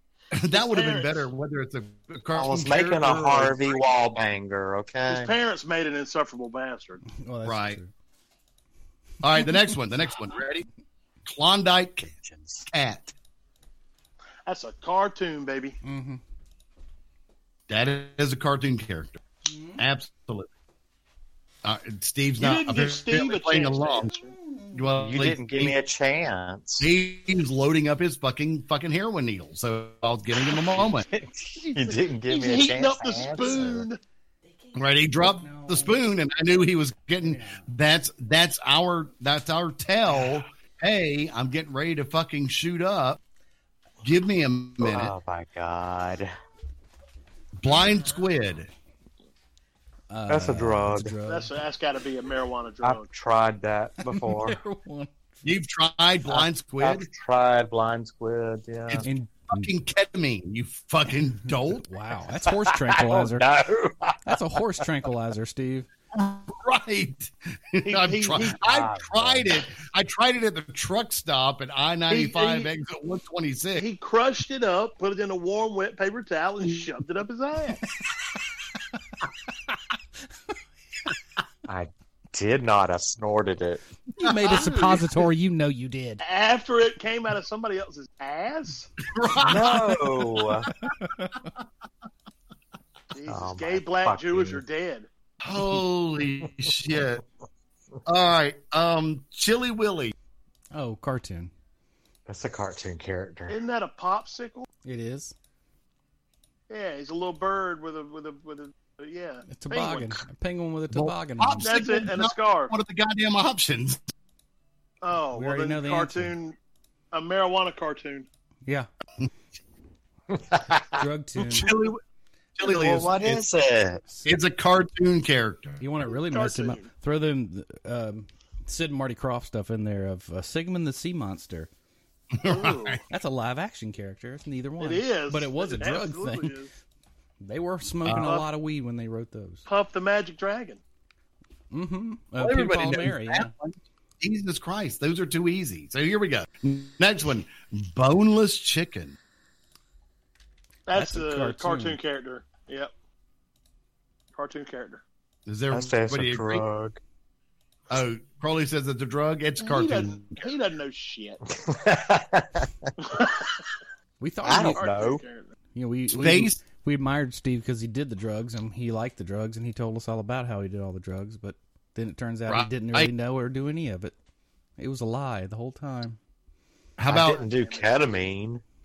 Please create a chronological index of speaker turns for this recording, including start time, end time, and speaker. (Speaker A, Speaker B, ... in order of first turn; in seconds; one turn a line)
Speaker A: 0.3-3.8
Speaker B: 0.5-1.3
Speaker C: 2.3-5.3
Speaker B: 5.1-7.0
Speaker D: 7.2-7.9
Speaker A: 7.4-7.8
Speaker A: 9.2-10.7
Speaker A: 11.2-12.1
Speaker C: 12.2-12.6
Speaker A: 12.7-13.1
Speaker B: 14.4-15.8
Speaker D: 15.8-16.2
Speaker A: 17.7-19.2
Speaker D: 19.5-19.8
Speaker A: 19.8-20.5
Speaker A: 21.6-24.1
Speaker B: 22.4-24.3
Speaker A: 24.7-25.8
Speaker C: 25.0-26.9
Speaker A: 26.8-31.1
Speaker C: 31.0-33.9
Speaker B: 31.6-34.0
Speaker A: 34.7-43.2
Speaker D: 35.3-36.0
Speaker D: 37.2-37.6
Speaker A: 44.0-45.1
Speaker C: 44.8-46.3
Speaker A: 47.6-48.7
Speaker D: 50.1-51.5
Speaker C: 50.3-51.1
Speaker B: 51.2-53.1
Speaker C: 52.8-54.6
Speaker D: 54.0-55.4
Speaker A: 55.4-57.1
Speaker C: 56.3-59.0
Speaker A: 58.9-61.9
Speaker D: 59.0-59.7
Speaker D: 61.7-63.5
Speaker C: 62.5-64.4
Speaker D: 64.2-65.9
Speaker A: 66.1-73.9
Speaker B: 67.8-68.6
Speaker C: 68.6-69.5
Speaker B: 72.1-72.7
Speaker B: 73.8-77.8
Speaker C: 81.7-83.8
Speaker D: 84.2-86.2
Speaker B: 84.5-85.2
Speaker B: 86.2-88.9
Speaker A: 89.0-91.0
Speaker C: 89.4-90.7
Speaker D: 90.9-91.4
Speaker B: 93.1-95.1
Speaker C: 93.3-94.6
Speaker A: 95.4-97.2
Speaker A: 98.0-100.1
Speaker D: 100.7-101.5
Speaker C: 102.3-103.5
Speaker B: 103.5-104.7
Speaker D: 104.8-105.3
Speaker B: 106.7-110.2
Speaker D: 109.5-111.7
Speaker A: 110.9-114.0
Speaker B: 111.6-112.7
Speaker B: 115.0-116.6
Speaker D: 115.3-116.3
Speaker B: 117.1-118.3
Speaker C: 120.3-121.0
Speaker D: 121.0-121.7
Speaker A: 121.4-122.0
Speaker A: 122.5-123.4
Speaker C: 122.6-124.0
Speaker D: 124.1-124.4
Speaker A: 124.2-125.8
Speaker D: 125.8-131.7
Speaker B: 126.1-126.9
Speaker A: 132.3-133.0
Speaker B: 132.4-133.0
Speaker D: 133.1-136.6
Speaker B: 134.8-136.7
Speaker D: 137.4-139.6
Speaker A: 138.0-138.4
Speaker B: 138.2-138.5
Speaker B: 139.7-140.8
Speaker D: 141.7-143.5
Speaker A: 142.4-149.2
Speaker B: 150.9-152.9
Speaker D: 150.9-152.0
Speaker B: 154.3-155.0
Speaker A: 155.4-156.6
Speaker C: 155.7-157.0
Speaker A: 157.9-160.4
Speaker B: 159.6-161.4
Speaker C: 161.5-162.9
Speaker B: 163.0-163.6
Speaker D: 164.2-164.8
Speaker C: 164.4-165.2
Speaker B: 164.7-165.5
Speaker D: 165.7-174.1
Speaker A: 166.1-166.6
Speaker A: 172.5-173.1
Speaker D: 174.8-176.2
Speaker A: 177.0-177.4
Speaker C: 177.1-178.6
Speaker B: 177.2-178.0